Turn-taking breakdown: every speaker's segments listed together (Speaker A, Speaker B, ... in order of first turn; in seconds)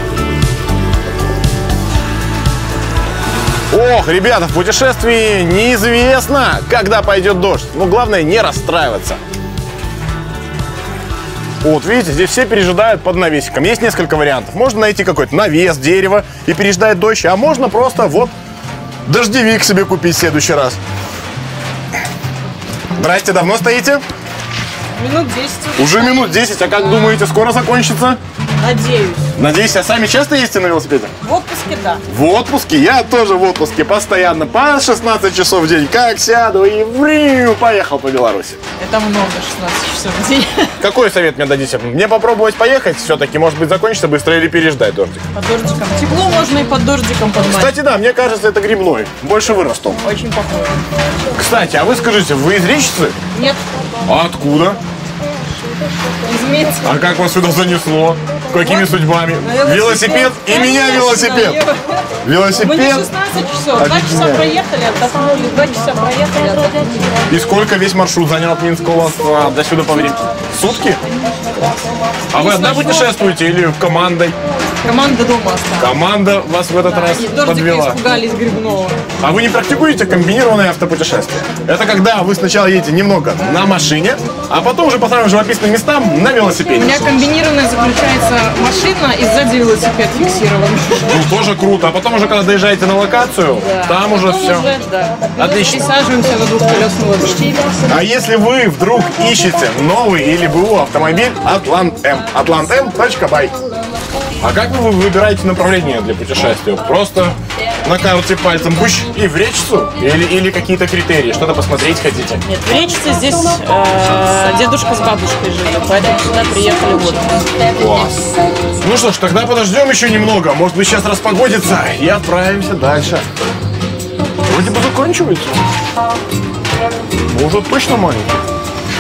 Speaker A: 3.7-9.2, 11.6-18.3, 19.1-20.8, 23.0-24.0, 25.8-28.2, 29.4-31.1, 32.1-38.6, 40.8-45.3, 47.5-50.0, 51.4-53.2, 54.1-54.8, 56.8-61.6, 62.2-63.1, 63.8-64.5, 67.3-71.0, 72.3-74.4, 75.8-78.0, 79.2-87.2, 91.0-94.7, 95.4-95.8, 97.9-103.5, 104.4-112.4, 117.8-118.2, 118.8-123.2, 124.5-125.5, 127.3-128.3
Speaker B: 25.0-26.4, 28.6-29.2, 31.2-32.0, 38.8-40.8, 45.4-47.8, 50.0-50.8, 53.4-53.6, 56.2-56.9, 58.6-62.0, 62.6-67.1, 72.4-73.1, 74.8-75.9, 76.8-79.0, 86.8-91.2, 93.7-97.8, 112.5-117.6